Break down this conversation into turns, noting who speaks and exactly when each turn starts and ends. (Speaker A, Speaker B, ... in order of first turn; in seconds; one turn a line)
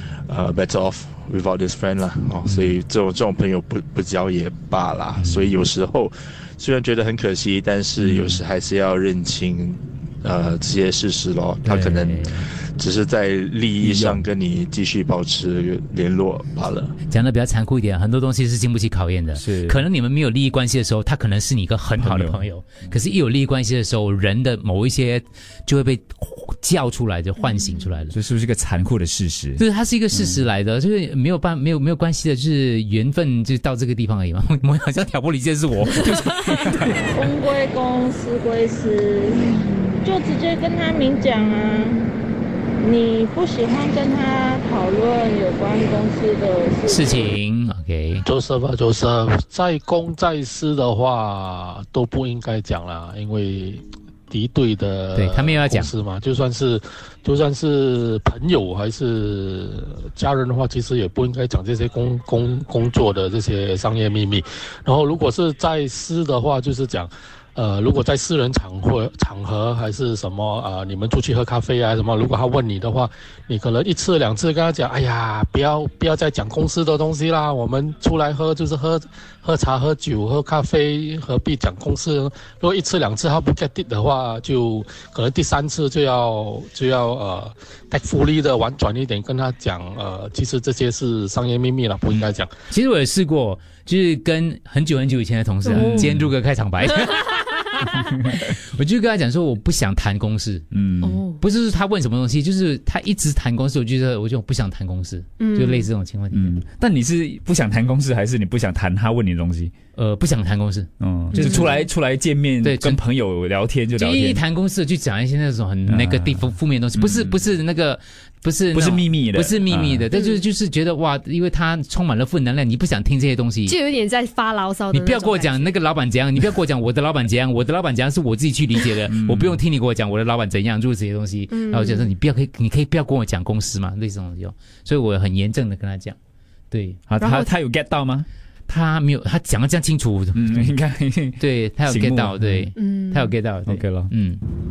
Speaker A: 0.3-16.9
Speaker B: 2.5-2.8
Speaker B: 5.2-5.5
Speaker C: 8.0-8.4
Speaker B: 11.7-12.5
Speaker C: 13.8-14.3
Speaker B: 17.1-28.1
Speaker C: 19.3-19.9
Speaker C: 22.0-22.4
Speaker C: 28.1-29.6
Speaker B: 29.6-37.2
Speaker C: 36.1-36.9
Speaker D: 37.2-39.4
Speaker D: 40.0-42.0
Speaker D: 42.8-47.3
Speaker B: 46.9-48.3
Speaker E: 48.2-92.5
Speaker B: 55.1-55.9
Speaker B: 92.1-100.7
Speaker F: 95.7-96.2
Speaker C: 95.8-96.3
Speaker C: 100.7-101.2
Speaker F: 101.0-101.4
Speaker B: 101.4-106.6
Speaker F: 105.4-105.9
Speaker C: 106.3-109.7
Speaker B: 110.0-111.7
Speaker C: 111.0-114.4
Speaker F: 111.5-111.8
Speaker B: 112.6-113.0
Speaker B: 113.9-123.8
Speaker C: 115.9-117.5
Speaker C: 118.7-120.1
Speaker F: 123.7-125.8
Speaker B: 124.9-136.2
Speaker C: 129.1-129.6
Speaker F: 131.5-132.1
Speaker B: 136.7-137.0
Speaker C: 137.1-138.3
Speaker F: 137.2-137.5
Speaker B: 138.7-140.8
Speaker C: 140.3-142.7
Speaker B: 141.4-144.4
Speaker F: 142.8-143.4
Speaker C: 143.7-144.1